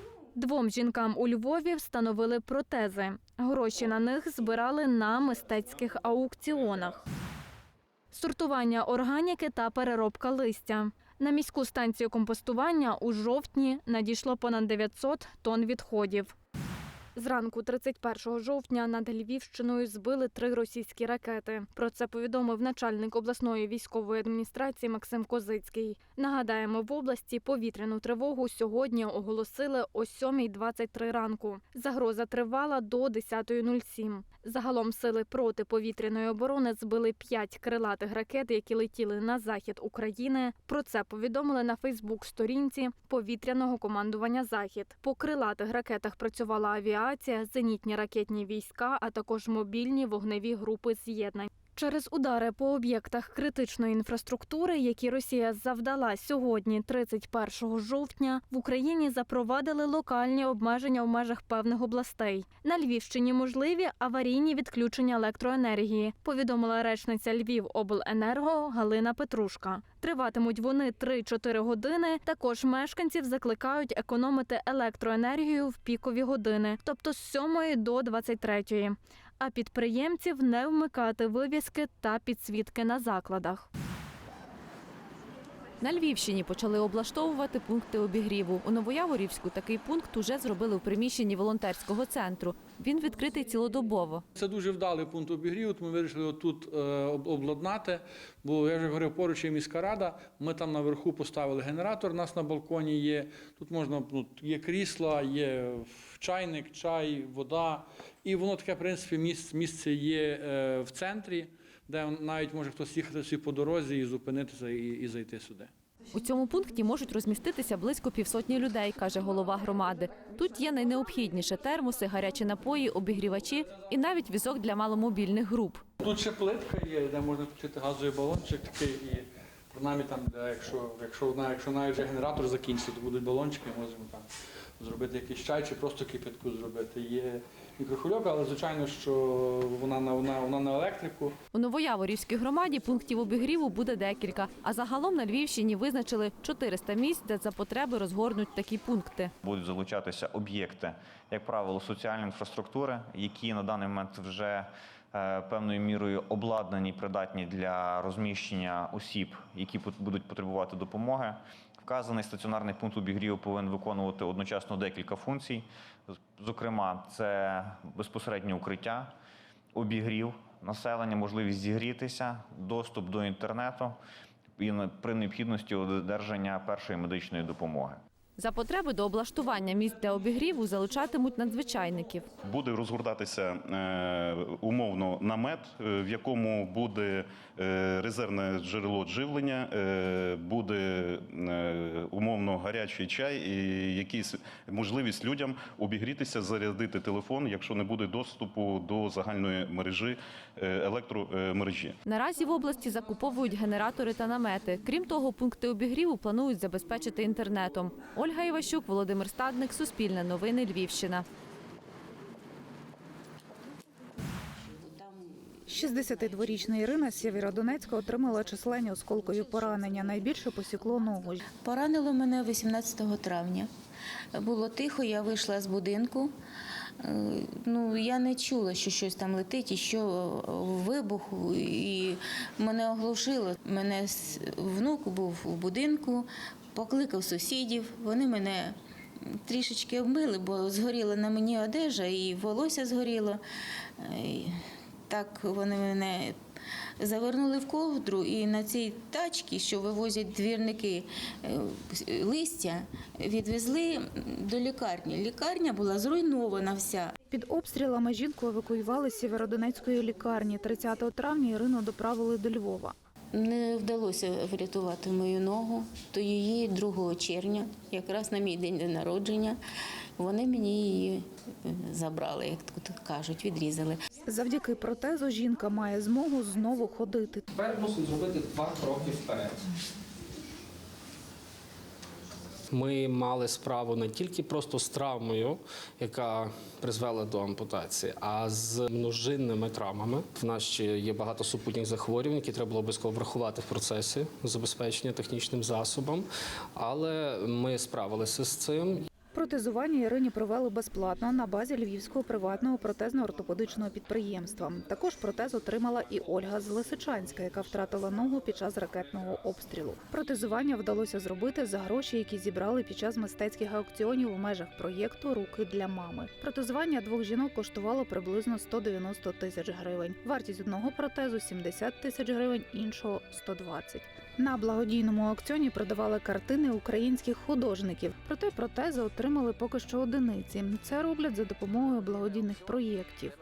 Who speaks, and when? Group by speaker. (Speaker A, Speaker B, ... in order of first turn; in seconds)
Speaker A: 0.3-7.0, 8.1-16.3, 17.1-83.7
Speaker B: 85.8-94.2, 116.1-125.8, 141.5-149.3, 178.4-182.3, 202.1-211.2
Speaker C: 94.4-115.7, 126.0-134.3, 134.8-141.4
Speaker D: 149.4-169.1, 169.7-174.0, 174.6-178.0
Speaker E: 182.4-201.9
Speaker F: 214.8-216.1, 221.5-223.7, 224.3-226.3, 227.0-238.7, 239.2-243.4, 244.0-246.4, 247.0-257.1, 263.3-269.6, 270.2-274.0
Speaker G: 215.7-221.4, 257.3-262.9, 274.2-277.4, 299.3-333.3
Speaker H: 282.7-299.0